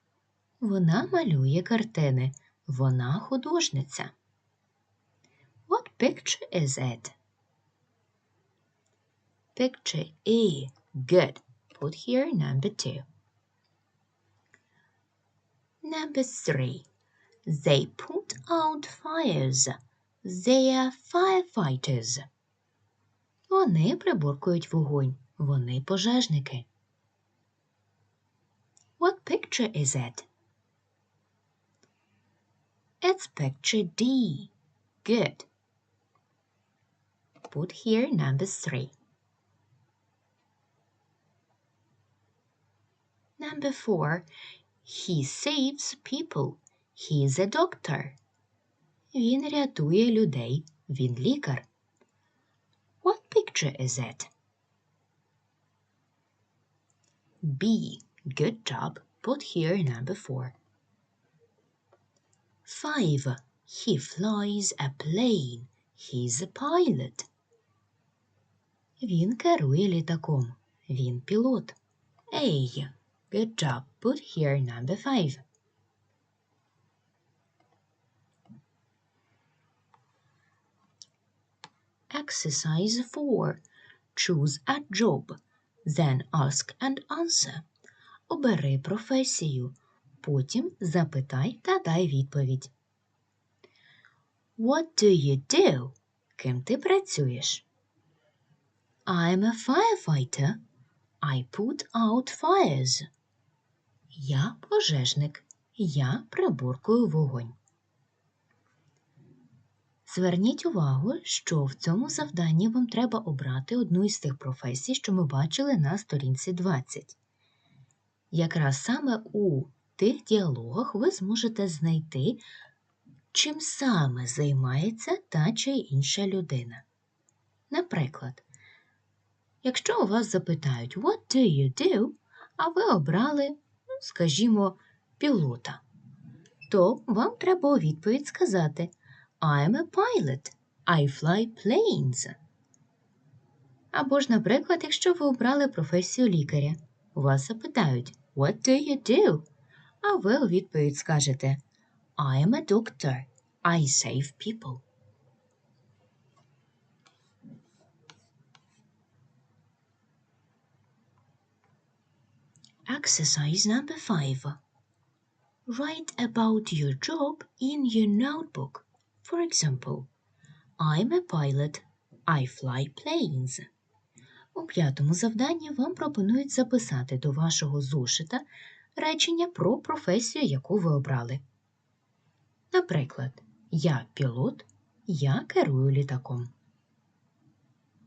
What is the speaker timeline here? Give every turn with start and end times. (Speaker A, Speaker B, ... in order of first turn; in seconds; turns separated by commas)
Speaker A: 0.6-4.1, Speaker A: 5.7-7.2, Speaker A: 9.6-13.1, Speaker A: 15.8-16.9, Speaker A: 17.5-22.2, Speaker A: 23.5-26.7, Speaker A: 29.0-30.3, Speaker A: 33.0-34.5, Speaker A: 35.0-35.5, Speaker A: 37.5-39.0, Speaker A: 43.4-44.3, Speaker A: 44.8-48.2, Speaker A: 49.1-51.7, Speaker A: 53.0-54.3, Speaker A: 57.4-60.6, Speaker A: 62.7-67.3, Speaker A: 69.0-71.8, Speaker A: 72.3-75.4, Speaker A: 82.1-83.6, Speaker A: 84.1-87.7, Speaker A: 88.3-92.7, Speaker A: 94.6-97.7, Speaker A: 99.1-100.6, Speaker A: 101.2-103.1, Speaker A: 104.1-107.6, Speaker A: 110.1-117.2, Speaker A: 118.3-122.4, Speaker A: 123.3-126.8, Speaker A: 127.7-128.4, Speaker A: 129.6-135.8, Speaker A: 136.7-142.4, Speaker A: 143.9-149.5, Speaker A: 150.0-151.6, Speaker A: 152.2-154.8, Speaker A: 162.9-164.6, Speaker A: 165.7-170.1, Speaker A: 170.8-173.7, Speaker A: 174.5-178.4, Speaker A: 179.0-181.4, Speaker A: 182.7-186.5